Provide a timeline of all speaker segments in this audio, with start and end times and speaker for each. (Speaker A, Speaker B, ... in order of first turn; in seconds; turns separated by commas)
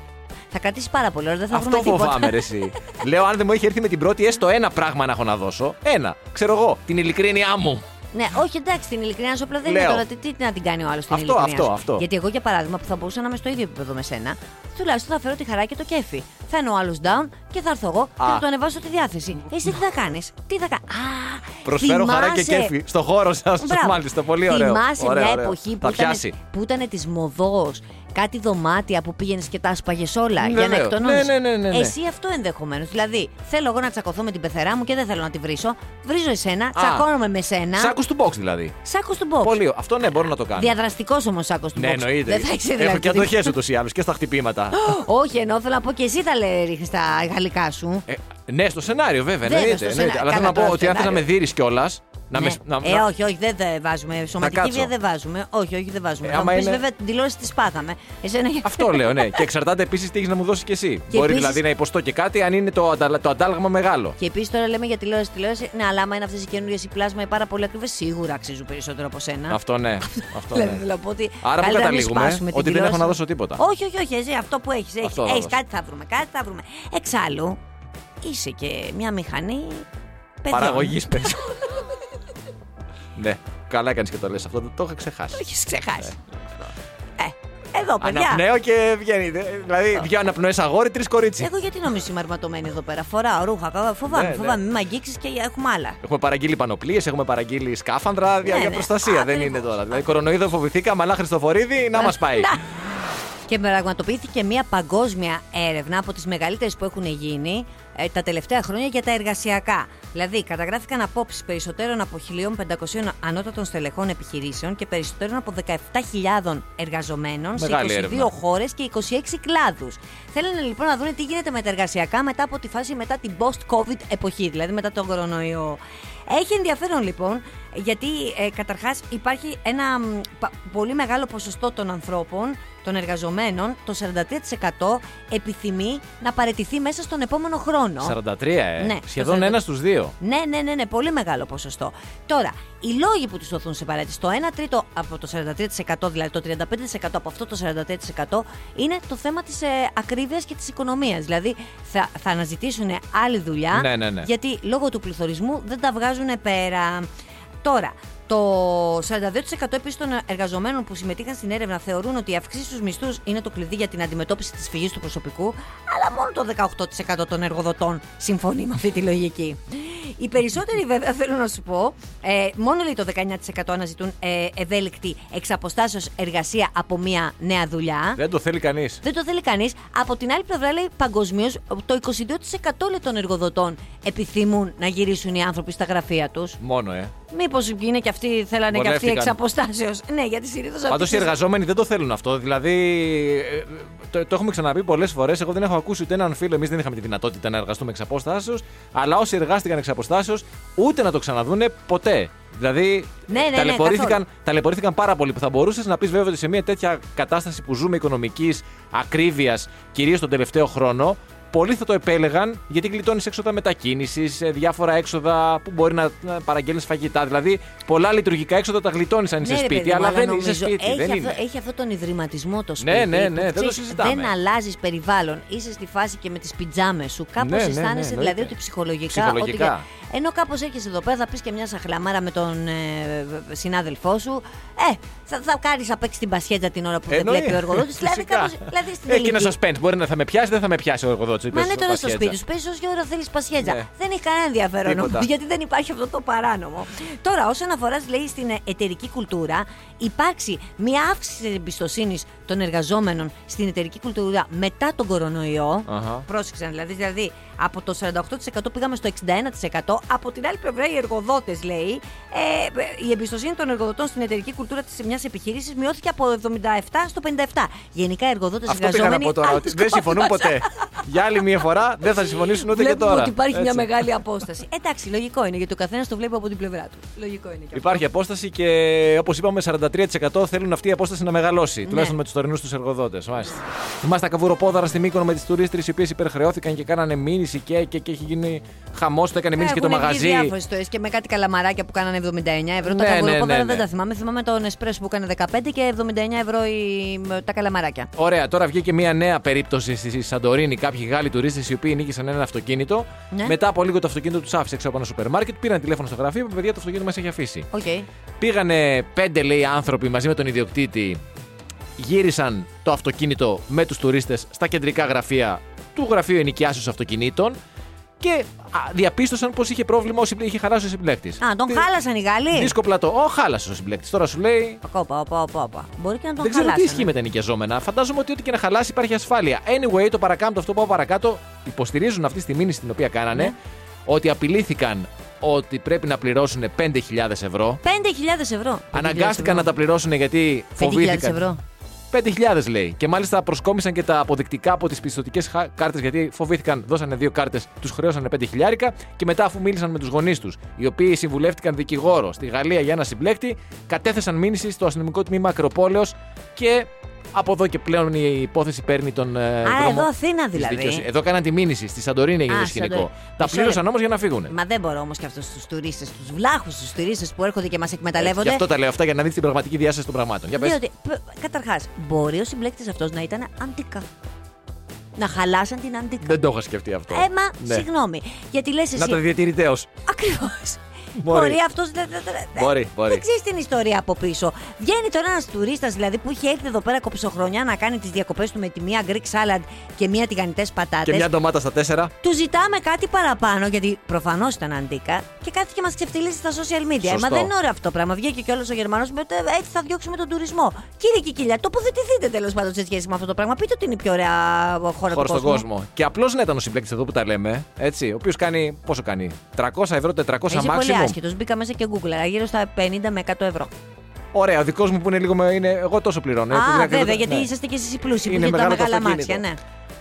Speaker A: 0.5-2.5, Speaker B: 1.5-7.8, Speaker A: 8.1-22.8, Speaker B: 9.6-10.1, Speaker B: 11.1-12.1, Speaker B: 18.2-18.4, Speaker B: 21.6-26.4, Speaker A: 23.6-38.0, Speaker B: 30.4-31.9, Speaker B: 36.8-37.1, Speaker B: 37.8-38.8, Speaker A: 38.8-39.6, Speaker B: 39.4-40.8, Speaker A: 40.5-43.5, Speaker B: 41.8-45.0, Speaker A: 44.7-48.1, Speaker B: 48.1-53.1, Speaker A: 49.4-51.3, Speaker A: 52.4-59.5, Speaker B: 54.4-54.9, Speaker B: 56.2-56.9, Speaker B: 58.6-64.2, Speaker A: 61.1-61.6, Speaker A: 64.2-77.6, Speaker B: 69.5-70.9, Speaker B: 71.4-73.6, Speaker B: 75.0-75.6, Speaker A: 78.2-79.9, Speaker A: 80.4-81.8, Speaker B: 80.5-81.6, Speaker B: 83.2-85.5, Speaker A: 85.3-86.2, Speaker A: 87.2-88.5, Speaker B: 88.0-91.5, Speaker A: 91.4-96.0, Speaker B: 94.0-94.6, Speaker B: 96.0-102.6, Speaker A: 98.4-99.9, Speaker A: 102.0-102.8, Speaker A: 103.5-138.2, Speaker B: 117.5-118.3, Speaker B: 138.0-140.2, Speaker A: 138.8-139.6, Speaker A: 140.2-157.1, Speaker B: 153.7-154.3, Speaker A: 157.6-178.2, Speaker B: 178.2-179.0, Speaker A: 179.0-186.6, Speaker B: 186.6-187.1, Speaker A: 187.3-191.3, Speaker B: 188.7-189.4, Speaker B: 190.9-221.4, Speaker A: 203.3-204.2, Speaker A: 219.4-239.5, Speaker B: 222.8-224.3, Speaker B: 227.4-228.6, Speaker B: 229.1-229.9, Speaker B: 237.1-242.4, Speaker A: 241.5-271.0, Speaker B: 243.6-243.9, Speaker B: 244.8-245.3, Speaker B: 255.9-256.2, Speaker B: 268.7-274.0, Speaker A: 272.3-278.1, Speaker B: 277.7-290.6, Speaker A: 281.9-282.2, Speaker A: 289.6-298.1, Speaker B: 292.8-293.9, Speaker B: 298.2-307.7, Speaker A: 303.3-303.6, Speaker A: 307.7-308.1, Speaker B: 308.4-311.2, Speaker B: 312.0-317.6, Speaker B: 318.2-321.9, Speaker A: 321.4-322.8, Speaker B: 322.5-324.8, Speaker A: 324.8-327.1, Speaker B: 326.4-333.6, Speaker B: 334.1-337.8, Speaker A: 337.8-339.7, Speaker B: 338.9-341.4, Speaker A: 340.8-341.6, Speaker B: 342.1-364.5, Speaker A: 359.6-361.1, Speaker A: 362.5-363.8, Speaker A: 364.5-368.7, Speaker B: 368.2-370.8, Speaker A: 370.5-374.1, Speaker A: 375.2-376.4, Speaker B: 376.2-377.9, Speaker A: 377.1-379.2, Speaker B: 378.9-379.9, Speaker A: 380.1-391.3, Speaker B: 381.2-381.6, Speaker B: 382.6-383.2, Speaker B: 391.1-392.1, Speaker A: 392.2-405.7, Speaker B: 397.0-397.5, Speaker B: 405.1-411.2, Speaker A: 410.5-413.7, Speaker B: 414.3-417.5, Speaker A: 416.5-419.6, Speaker B: 418.2-419.4